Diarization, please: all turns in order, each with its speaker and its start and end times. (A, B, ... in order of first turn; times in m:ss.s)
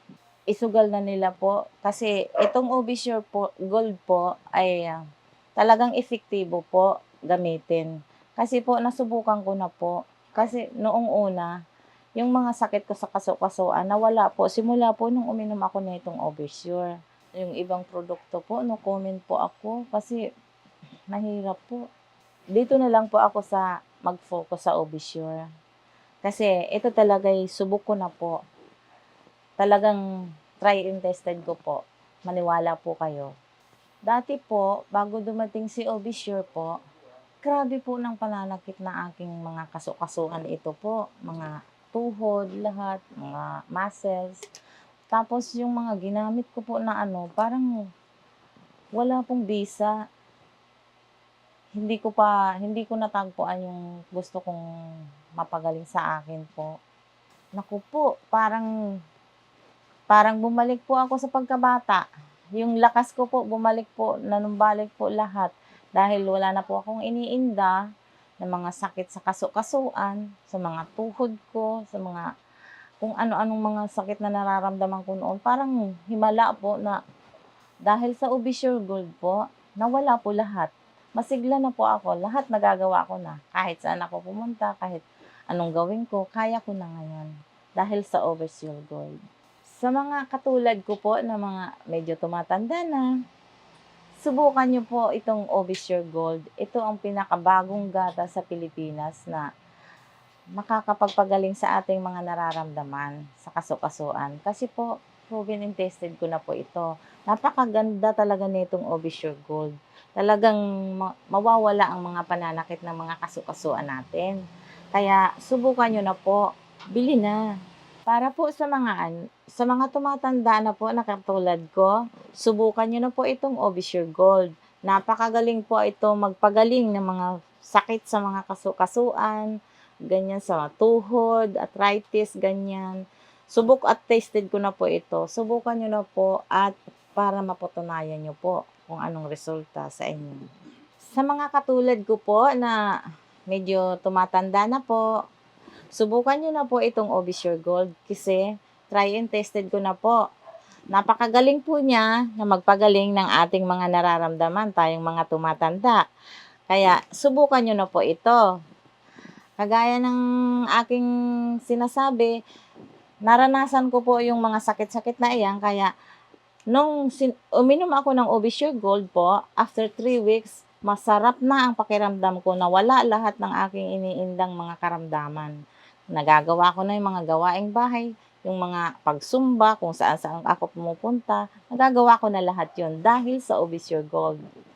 0:00.5-0:05.0 A
0:05.6-0:11.5 A
0:12.2-0:20.2 A
0:21.1-0:21.8 A
0:22.6-0:25.4 A
0:26.2-0:28.4 A
0:29.6-0:30.0 A
0:30.6-0:33.3 A
0:34.1-0:36.8 A
0:37.4-0:44.4 A
0:45.1-0:47.7 A
0:49.0-0:49.9 A
0:51.8-0:54.6 A
0:55.4-0:56.7 A
0:57.6-0:58.7 A
1:00.1-1:02.0 A
1:02.6-1:07.8 A
1:08.4-1:12.3 A
1:13.0-1:17.0 A
1:17.9-1:29.2 A
1:29.8-1:33.1 A
1:34.2-1:39.5 A
1:40.6-1:54.4 A
1:55.0-1:57.4 A
1:58.1-2:09.5 A
2:10.1-2:13.0 A
2:13.5-2:20.4 A
2:21.2-2:22.8 A
2:23.5-2:25.0 A
2:25.9-2:30.2 A
2:30.9-2:36.0 A
2:36.7-2:38.4 A
2:39.6-2:40.2 A
2:40.7-2:41.1 A
2:41.7-2:42.4 A
2:43.3-2:45.9 A
2:46.7-2:55.6 A
2:56.1-3:04.4 A